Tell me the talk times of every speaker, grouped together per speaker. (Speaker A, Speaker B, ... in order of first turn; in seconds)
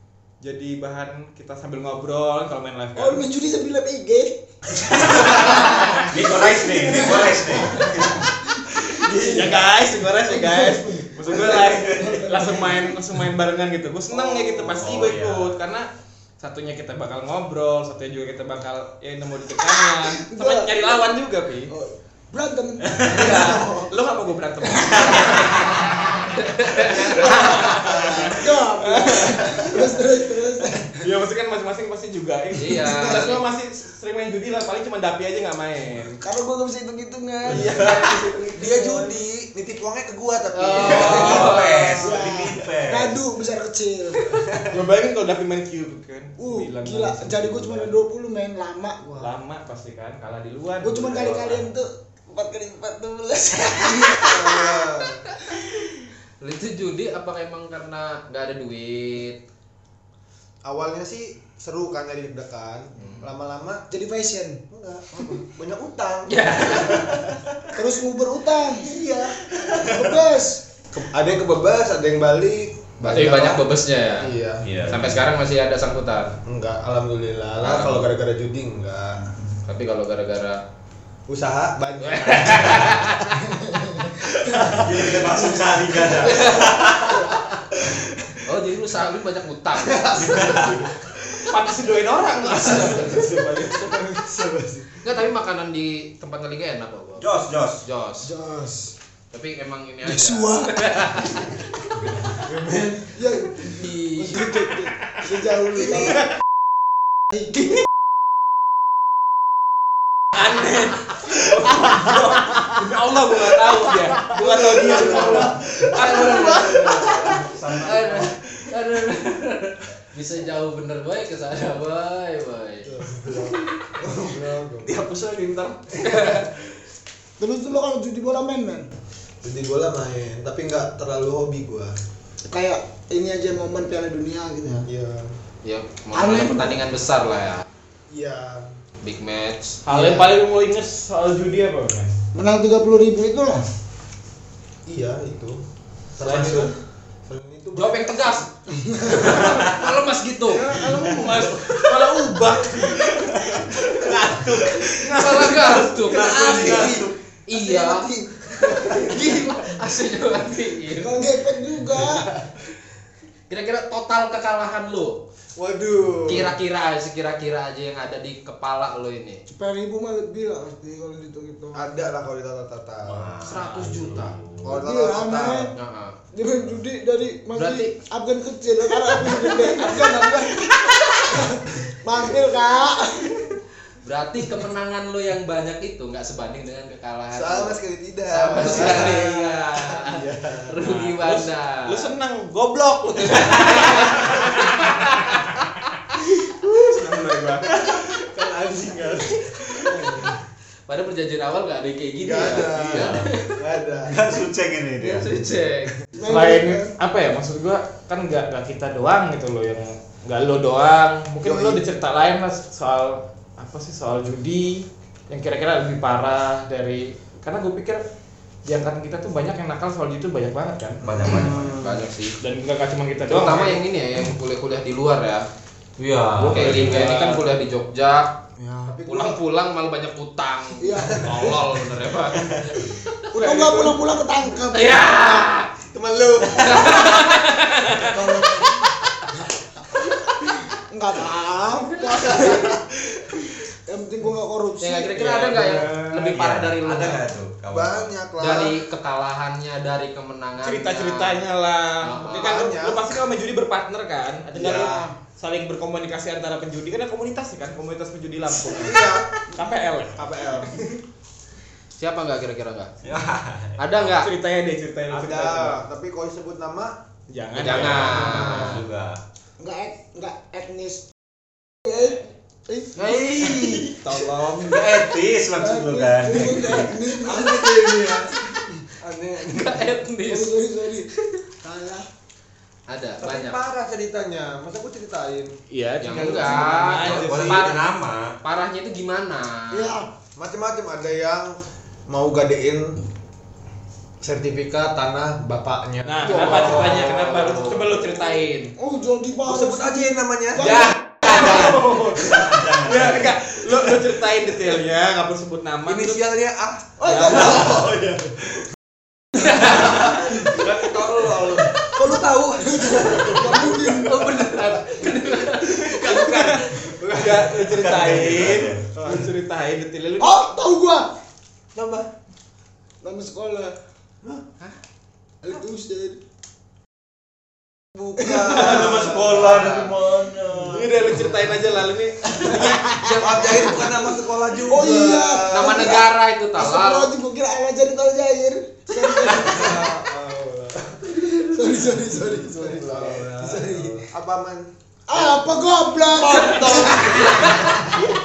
Speaker A: 0.4-3.2, 5.1-6.1, 9.2-15.9, 16.4-21.7, 23.0-29.8, 31.0-36.1, 37.5-38.9, 44.6-47.9, 49.2-51.7, 91.5-94.0, 110.4-115.6, 116.2-116.4, 139.9-142.1, 146.2-146.7, 150.7-153.2, 188.7-189.3, 190.8-195.6, 196.2-197.8, 206.2-218.0, 218.7-221.0, 222.4-223.8, 226.6-227.4, 233.4-234.0, 245.5-246.3, 250.6-260.8, 264.2-265.8, 267.3-268.7, 273.2-274.9, 285.7-287.8, 296.1-298.7, 300.6-306.2, 307.1-307.4, 315.0-320.6, 330.7-332.9, 346.3-347.2
Speaker B: 3.0-4.4, 4.9-12.9, 20.0-21.0, 21.7-23.7, 24.6-26.0, 26.8-31.0, 32.7-33.3, 36.2-39.2, 42.0-44.4, 46.4-49.3, 50.8-55.0, 63.9-64.6, 67.7-68.9, 69.9-70.6, 83.4-84.8, 98.2-99.0, 100.0-100.8, 103.0-106.2, 127.4-128.9, 132.5-134.9, 136.1-136.8, 142.3-143.7, 148.7-149.4, 161.0-162.3, 169.5-171.9, 174.7-175.7, 176.3-180.7, 181.3-183.4, 199.9-200.2, 206.1-206.9, 228.6-229.0, 230.8-231.6, 233.3-235.5, 240.9-242.8, 243.9-245.8, 269.6-271.1, 271.8-274.0, 275.5-278.3, 280.3-281.1, 281.6-282.1, 289.7-290.1, 296.3-297.2, 298.8-301.7, 307.0-307.9, 309.6-310.3, 312.6-314.7, 320.2-321.1, 323.0-323.8, 325.4-326.2, 328.2-328.9, 330.3-330.8, 332.4-334.0, 334.6-339.9, 341.2-344.0, 345.1-347.7
Speaker C: 4.8-9.5, 11.6-12.2, 14.8-15.5, 37.5-38.1, 40.8-43.2, 44.5-44.8, 69.6-70.1, 74.6-75.2, 77.6-78.0, 82.5-82.8, 84.5-88.1, 90.2-90.9, 97.2-97.8, 115.8-118.7, 149.4-149.8, 152.6-157.1, 173.1-174.6, 199.6-200.0, 202.7-203.4, 204.1-205.4, 221.0-221.8, 226.0-227.2, 232.3-232.8, 246.3-248.1, 263.0-263.8, 267.6-269.2, 274.6-277.0, 287.0-288.4, 302.0-304.0, 307.2-308.4, 317.6-318.9, 328.6-330.9
Speaker D: 14.1-15.0, 23.1-23.9, 27.8-28.3, 38.5-41.7, 54.2-55.2, 60.6-63.9, 64.7-67.4, 68.8-69.9, 70.9-73.7, 74.2-74.7, 76.5-79.3, 81.3-83.0, 89.8-90.9, 92.4-95.0, 114.3-115.6, 116.4-116.7, 122.9-126.5, 129.4-131.9, 134.9-135.3, 138.1-138.7, 144.9-145.6, 146.2-146.7, 147.3-148.5, 149.2-149.6, 150.5-151.6, 156.0-159.7, 165.6-166.6, 171.8-173.5, 174.6-175.7, 187.3-190.9, 197.8-200.4, 202.2-204.3, 211.4-211.8, 221.1-222.0, 228.8-229.4, 231.0-231.6, 235.8-238.8, 242.2-243.2, 247.7-248.8, 252.3-253.1, 254.6-255.1, 258.7-259.3, 260.1-260.8, 265.1-267.0, 276.5-278.5, 279.0-279.9, 283.2-285.6, 286.2-286.9, 290.4-293.0, 294.2-297.3, 299.4-300.9, 305.9-308.0, 309.4-319.3, 321.8-322.1, 327.9-329.9, 333.2-336.1, 339.3-341.5, 342.2-344.7, 346.3-347.8
Speaker E: 25.6-27.3, 32.6-33.4, 40.5-42.1, 56.4-59.4, 63.0-63.3, 66.3-67.2, 73.0-74.3, 74.8-76.4, 79.7-80.6, 82.0-83.5, 86.2-87.0, 88.5-90.5, 95.0-98.3, 99.3-101.9, 103.7-104.5, 115.3-122.9, 126.0-126.5, 135.6-137.7, 139.0-140.4, 147.8-148.5, 149.1-150.9, 155.0-158.1, 158.7-161.2, 163.5-165.2, 166.3-169.4, 173.4-174.4, 175.8-176.2, 177.5-177.9, 184.0-187.8, 188.3-192.1, 193.4-195.5, 200.9-203.6, 205.0-206.0, 221.2-222.4, 223.3-225.5, 226.4-228.3, 229.1-233.0, 234.7-235.7, 236.6-238.0, 244.8-247.2, 248.4-251.4, 252.0-252.7, 262.0-262.9, 263.8-264.3, 267.6-268.8, 273.2-273.9, 279.4-280.5, 282.9-283.6, 286.0-287.9, 288.4-290.0, 296.3-297.8, 309.6-309.9, 314.1-316.6, 332.5-333.8, 335.5-337.1, 346.5-347.8